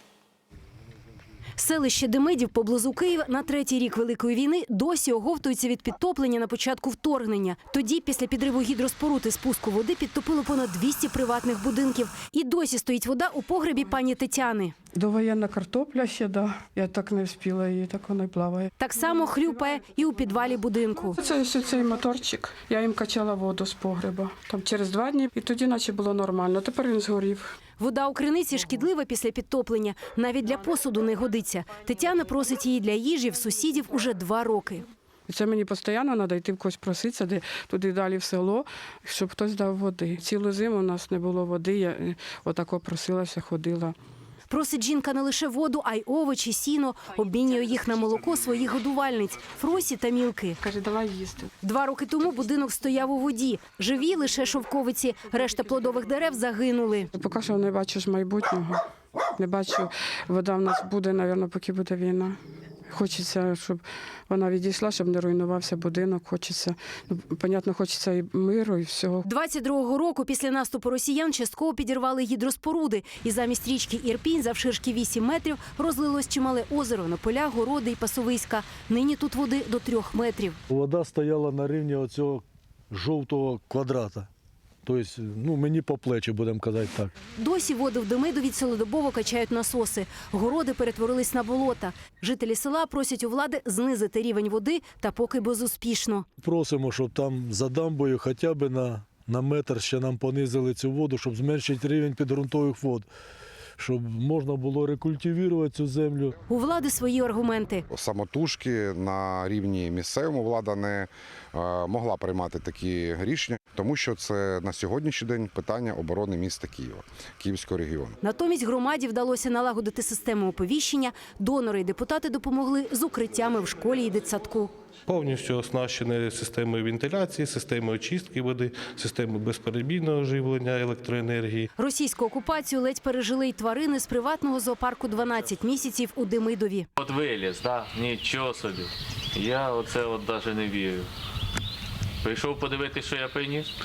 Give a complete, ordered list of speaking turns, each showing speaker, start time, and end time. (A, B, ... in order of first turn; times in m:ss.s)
0:01.6-0:14.7 A
0:14.9-0:18.7 B
0:18.8-0:21.2 A
0:21.2-0:27.5 B
0:27.8-0:34.8 A
0:35.3-0:44.0 B
0:44.5-0:50.6 A
0:50.6-0:51.5 B
0:51.6-0:57.1 A
0:57.1-0:58.8 B
0:59.4-1:02.4 B
1:02.9-1:09.2 B
1:09.2-1:20.6 A
1:20.7-1:24.3 C
1:24.8-1:27.1 C
1:27.4-1:36.3 A
1:36.4-1:43.1 C
1:43.8-1:46.4 C
1:46.5-1:47.8 A
1:47.9-1:58.2 D
1:58.2-2:04.7 A
2:05.1-2:11.7 E
2:11.8-2:16.9 A
2:17.0-2:21.1 F
2:22.2-2:23.7 F